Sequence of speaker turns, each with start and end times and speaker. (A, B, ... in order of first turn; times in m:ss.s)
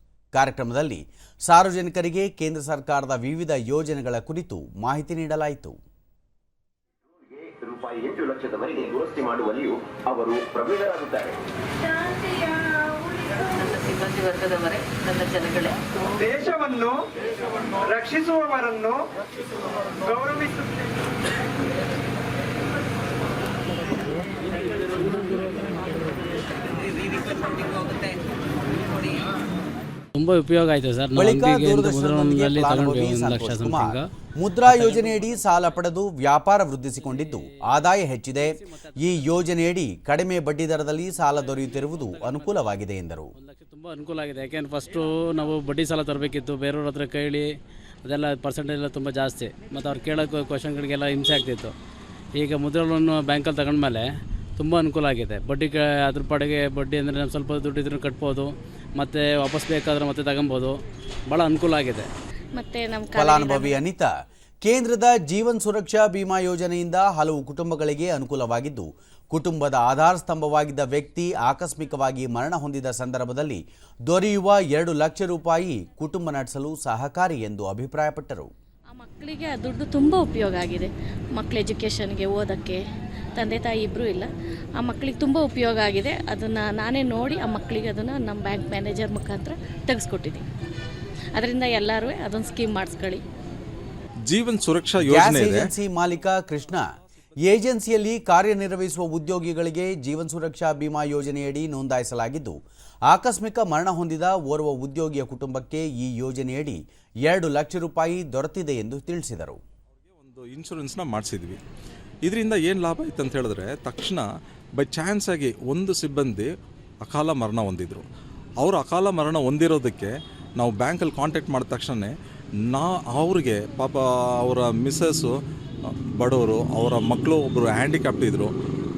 0:00.3-0:05.8 A
0:07.1-0:11.4 B
0:13.5-0:15.8 C
0:16.2-0:17.0 D
0:17.9-0:19.0 D
0:20.1-0:20.5 D
0:30.1-0:34.1 E
0:31.2-0:43.3 A
0:34.6-0:35.5 E
0:36.9-0:39.5 E
0:41.2-0:42.7 E
0:43.4-0:47.5 E
0:48.1-0:51.7 E
0:52.4-0:54.1 E
0:54.6-1:00.8 E
1:01.3-1:02.1 E
1:02.6-1:03.8 F
1:03.2-1:04.1 A
1:04.6-1:18.5 A
1:18.9-1:22.8 F
1:23.4-1:30.4 F
1:31.4-1:33.2 F
1:34.3-1:35.7 G
1:35.0-1:36.8 A
1:37.4-1:42.6 A
1:43.1-1:49.6 A
1:50.2-1:51.6 G
1:52.2-1:54.2 G
1:54.8-1:56.5 G
1:57.0-1:58.0 G
1:58.6-2:02.1 G
2:02.7-2:08.5 G